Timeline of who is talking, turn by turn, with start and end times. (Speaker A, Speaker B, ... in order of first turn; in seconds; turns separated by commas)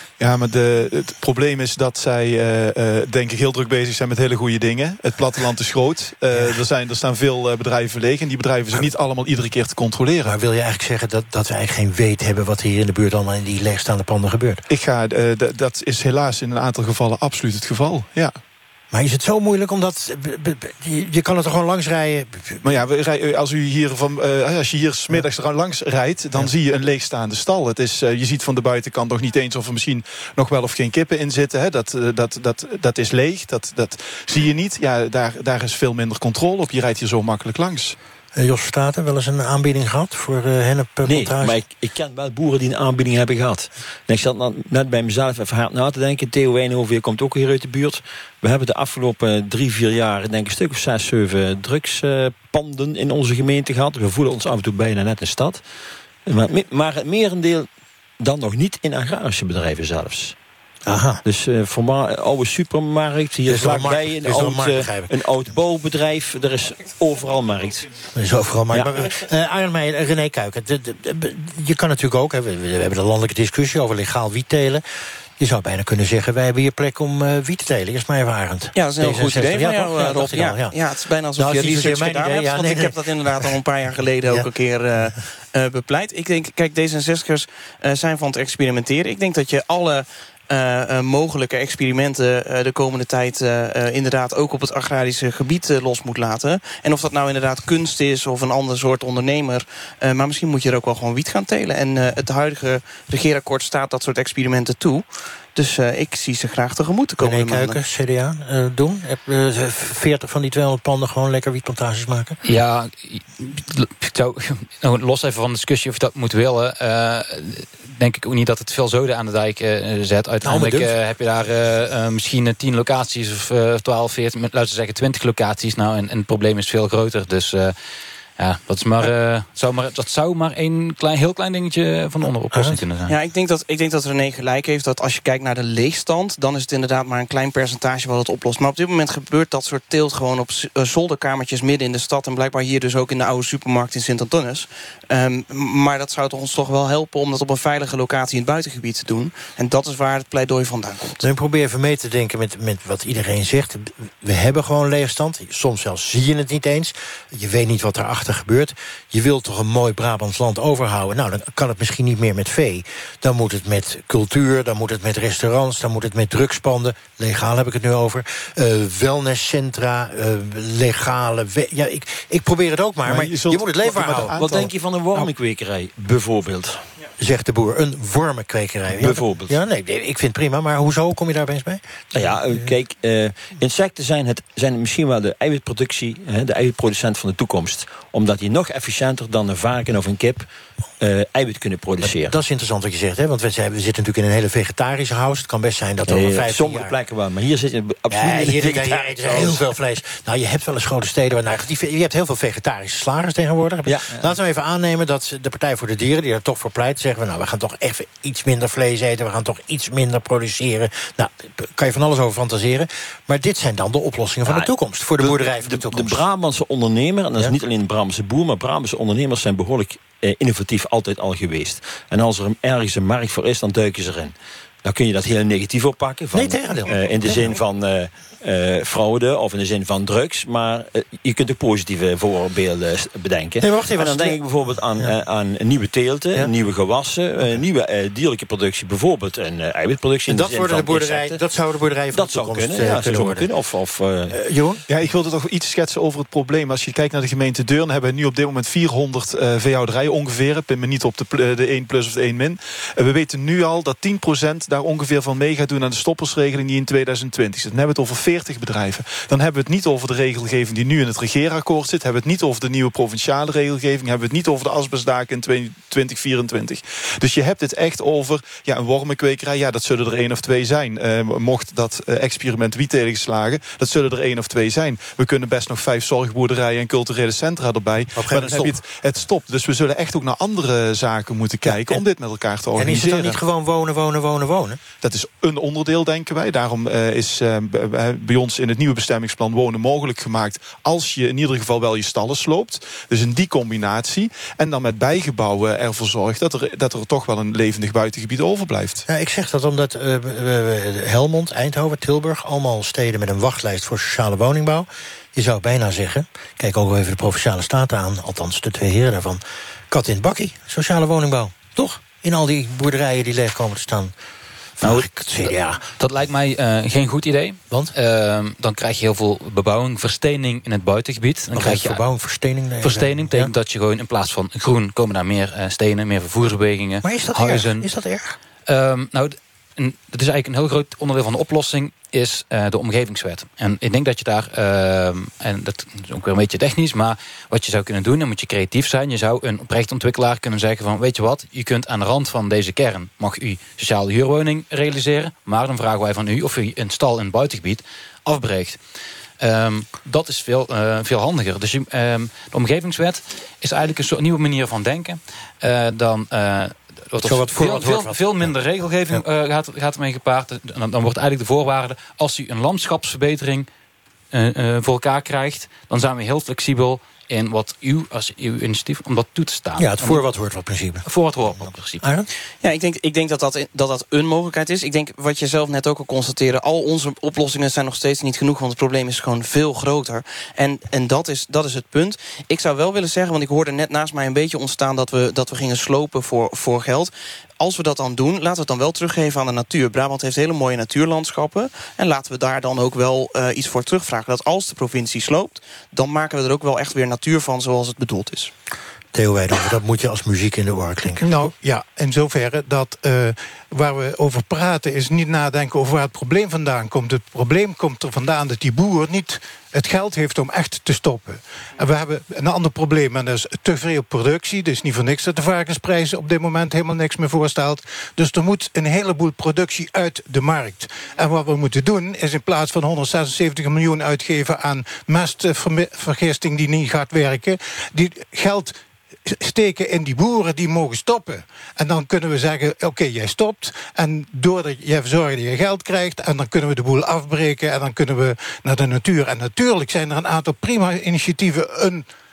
Speaker A: 0.2-10.3, Speaker B: 6.3-6.6, Speaker B: 10.2-14.6, Speaker A: 14.7-18.4, Speaker B: 18.9-22.6, Speaker A: 22.6-38.0, Speaker B: 38.4-41.6, Speaker C: 41.1-55.6, Speaker C: 56.3-57.7, Speaker C: 58.2-60.4, Speaker B: 60.9-61.2, Speaker C: 61.2-67.9, Speaker B: 63.5-65.1, Speaker B: 68.2-74.8, Speaker C: 68.7-69.1, Speaker B: 75.4-80.8, Speaker D: 78.8-107.8, Speaker B: 81.4-83.6, Speaker B: 107.2-112.4, Speaker E: 112.5-127.7, Speaker B: 120.4-121.0, Speaker E: 128.4-133.1, Speaker B: 132.5-132.8, Speaker D: 133.1-151.2, Speaker B: 151.2-174.7, Speaker A: 173.1-174.7, Speaker C: 174.3-176.8, Speaker B: 177.2-182.7, Speaker C: 178.9-179.6, Speaker C: 182.1-190.4, Speaker C: 191.0-192.4, Speaker B: 192.0-196.9, Speaker C: 196.1-199.6, Speaker B: 198.1-216.2, Speaker C: 203.9-204.3, Speaker C: 214.5-241.4, Speaker B: 226.3-227.6, Speaker B: 233.6-234.4, Speaker B: 240.3-243.5, Speaker C: 242.1-244.4, Speaker B: 244.3-244.8, Speaker A: 244.9-283.4, Speaker B: 278.2-278.8, Speaker B: 281.6-282.0, Speaker B: 282.8-284.8, Speaker A: 285.0-299.0, Speaker B: 299.1-314.1, Speaker B: 314.8-315.8, Speaker E: 316.0-322.0, Speaker B: 321.5-323.5, Speaker E: 322.8-327.9, Speaker B: 327.0-328.4, Speaker E: 328.7-348.8, Speaker E: 349.4-363.7, Speaker B: 357.2-358.5, Speaker E: 364.3-370.2, Speaker B: 369.8-371.1, Speaker E: 371.1-372.0, Speaker B: 372.0-372.3, Speaker D: 372.6-398.5, Speaker B: 399.1-401.5, Speaker F: 401.2-428.7, Speaker F: 429.3-442.1